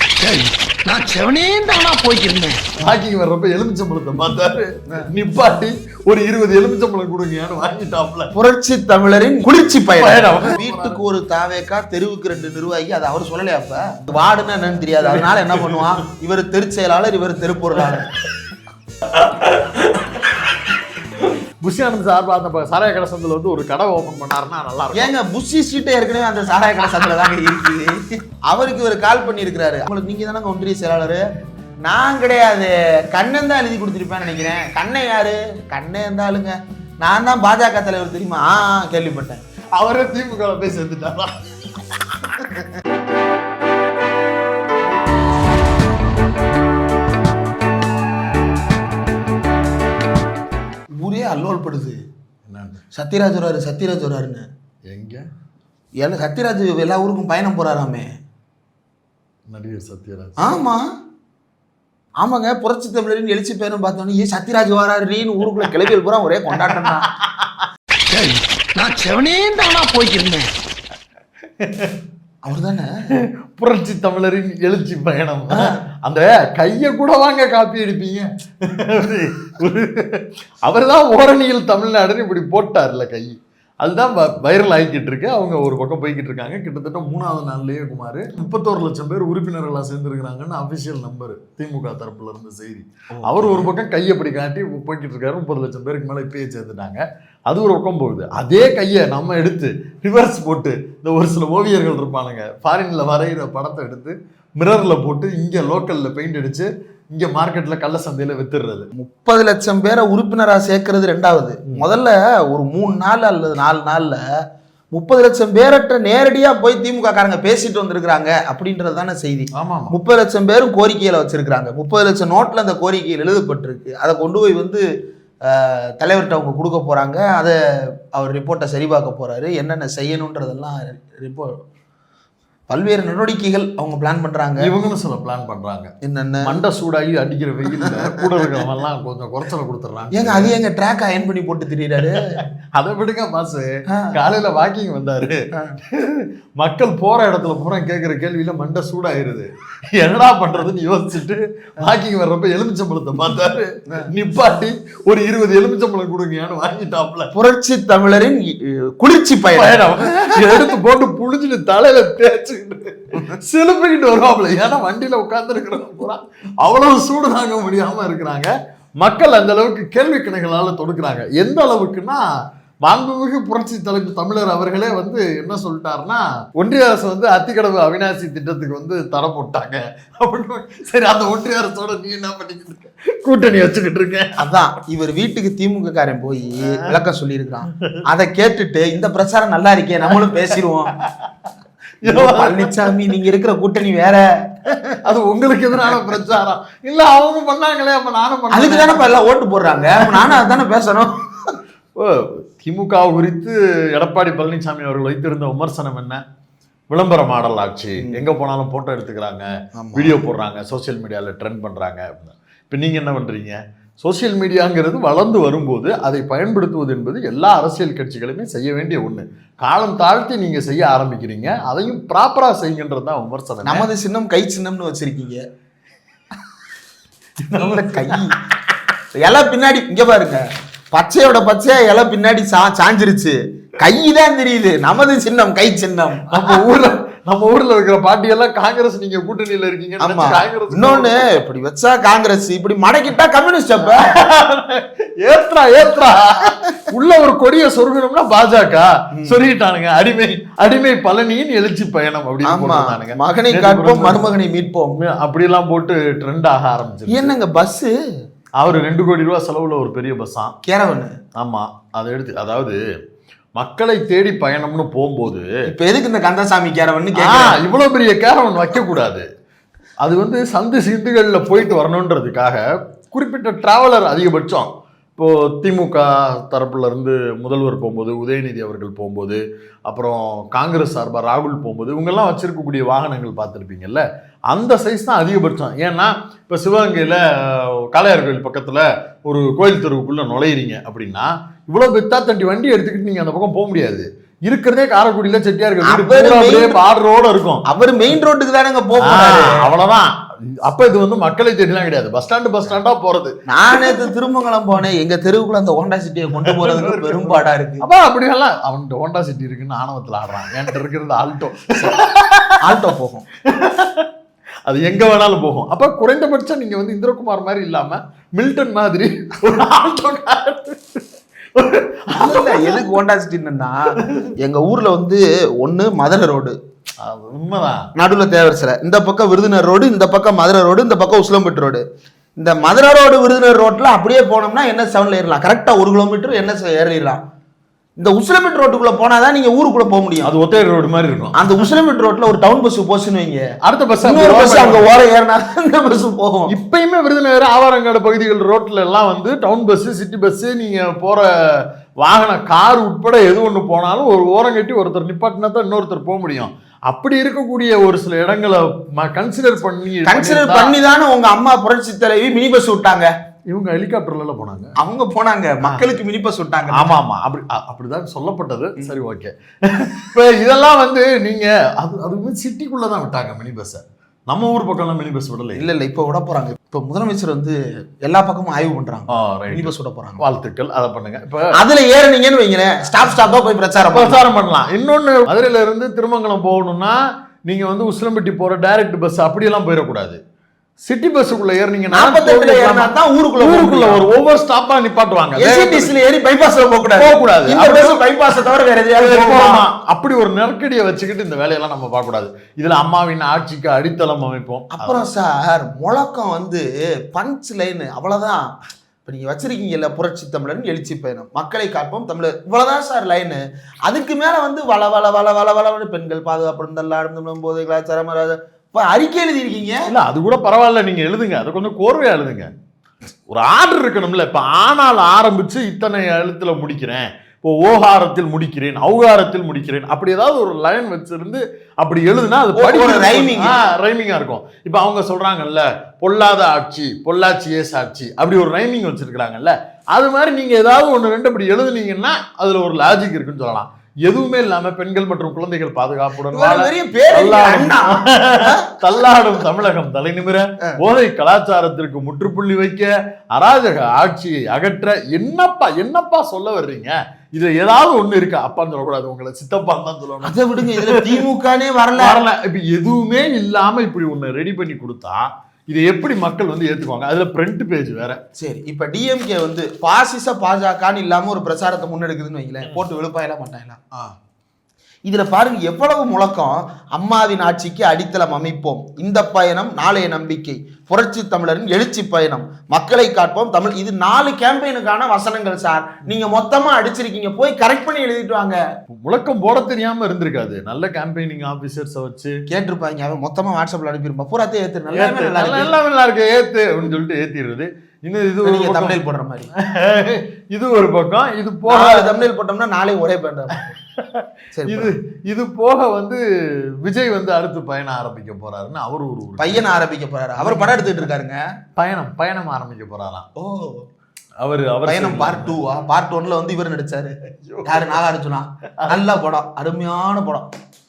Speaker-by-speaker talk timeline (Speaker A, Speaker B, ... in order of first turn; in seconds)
Speaker A: 0.2-2.6, 68.1-70.5
Speaker B: 2.8-8.3, 10.0-11.0, 15.0-16.0, 17.8-18.1, 19.1-25.1, 39.8-42.4, 52.5-52.8, 54.9-55.3, 59.5-60.5, 66.7-67.7, 71.6-72.0, 73.2-108.9, 119.5-119.9, 134.6-135.9, 136.4-140.6, 142.0-157.3, 159.5-172.3, 172.8-184.4, 190.1-190.4, 191.0-191.5, 192.1-192.9, 195.0-199.1, 200.0-200.4, 202.0-206.2, 206.9-223.9, 227.4-228.2, 236.3-241.3, 243.9-254.3, 255.0-257.3, 258.6-260.6, 261.4-262.8, 263.6-265.5, 267.1-269.2, 270.0-297.6, 299.0-304.0, 306.3-314.1, 314.7-323.0, 324.0-324.3, 327.0-327.9, 340.2-341.7, 343.6-344.9, 346.5-360.8, 363.5-364.7, 366.7-375.7, 379.1-381.6, 383.9-390.2, 390.9-396.0, 397.0-398.4, 399.0-405.0, 419.9-422.5, 423.3-461.2, 462.0-468.2, 488.9-492.4, 494.9-499.0, 499.6-502.2, 503.6-506.2, 506.8-509.6, 510.4-511.1, 511.8-513.3, 514.4-515.6, 517.4-518.0, 518.8-519.1
Speaker C: 8.3-18.1, 24.9-31.2, 31.9-39.4, 51.0-52.0, 53.0-54.5, 56.0-58.1, 60.4-60.8, 62.2-67.1, 72.4-72.9, 93.1-93.7, 109.0-114.2, 114.9-124.8, 125.5-127.6, 128.1-131.6, 132.7-134.7, 136.0-136.5, 137.7-138.6, 140.1-142.4, 143.9-144.2, 157.3-160.7, 184.4-190.9, 192.1-195.0, 198.5-201.5, 208.0-208.2, 209.8-210.3, 223.7-225.4, 227.6-228.4, 229.2-236.6, 240.0-244.2, 252.4-255.0, 257.1-257.9, 260.6-261.1, 265.7-267.6, 295.8-296.8, 297.7-299.7, 303.5-307.8, 312.6-313.3, 322.1-326.6, 328.0-331.8, 332.4-337.2, 338.0-340.3, 341.4-343.4, 344.0-346.5, 360.1-363.1, 364.8-367.0, 375.6-380.2, 381.5-384.2, 391.9-394.1, 395.4-399.6, 404.7-408.5, 409.1-419.9, 432.6-433.6, 446.3-449.1, 460.2-462.2, 468.4-473.8, 475.1-488.6, 492.5-495.7, 498.4-499.5, 501.7-503.8, 504.5-504.9, 509.4-511.4, 513.4-513.9, 514.9-520.5